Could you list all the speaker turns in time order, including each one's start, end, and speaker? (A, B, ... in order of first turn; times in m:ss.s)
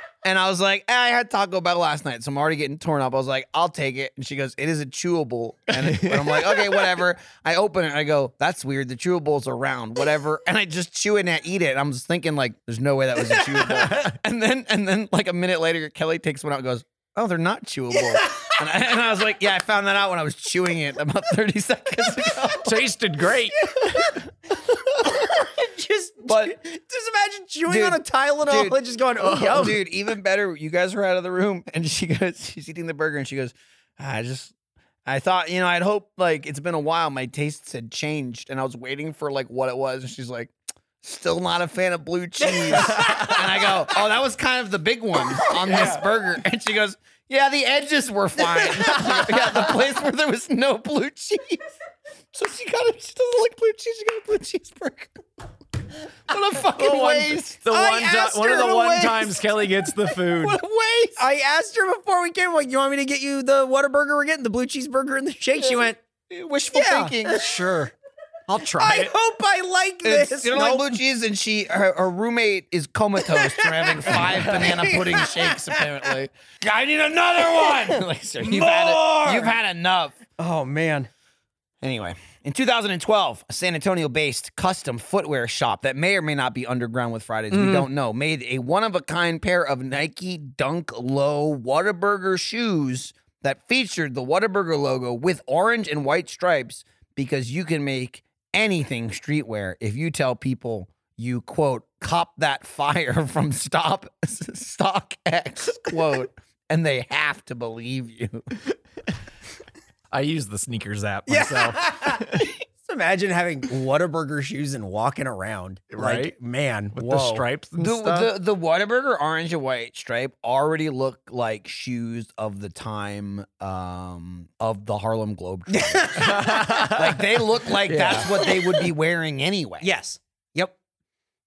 0:00.2-0:22.8 A
0:05.7-0:06.7 B
0:13.3-0:14.0 C
0:18.1-0:18.5 C
0:22.6-0:23.8 B
0:23.7-0:24.0 C
0:25.0-0:29.8 C
0:26.2-0:26.6 A
0:27.7-0:34.5 A
0:35.0-0:51.6 A
0:42.5-0:43.3 C
0:42.9-0:43.3 B
0:45.6-0:46.0 B
0:52.3-0:55.1 A
0:56.3-0:59.4 A
0:56.7-1:00.6 B
0:57.7-0:58.8 C
1:00.3-1:01.2 A
1:01.2-1:06.0 C
1:06.3-1:07.9 A
1:06.7-1:07.4 C
1:08.5-1:09.1 B
1:08.6-1:10.9 C
1:10.0-1:20.2 A
1:13.2-1:16.0 C
1:17.6-1:19.5 C
1:20.4-1:21.1 C
1:21.8-1:48.5 A
1:27.5-1:27.9 C
1:50.1-1:52.5 B
1:51.3-1:57.4 C
1:55.9-1:56.3 B
1:56.9-1:58.3 B
1:57.8-2:09.9 A
2:05.7-2:07.0 C
2:06.2-2:07.3 B
2:07.9-2:08.3 B
2:07.9-2:08.9 C
2:09.8-2:10.7 C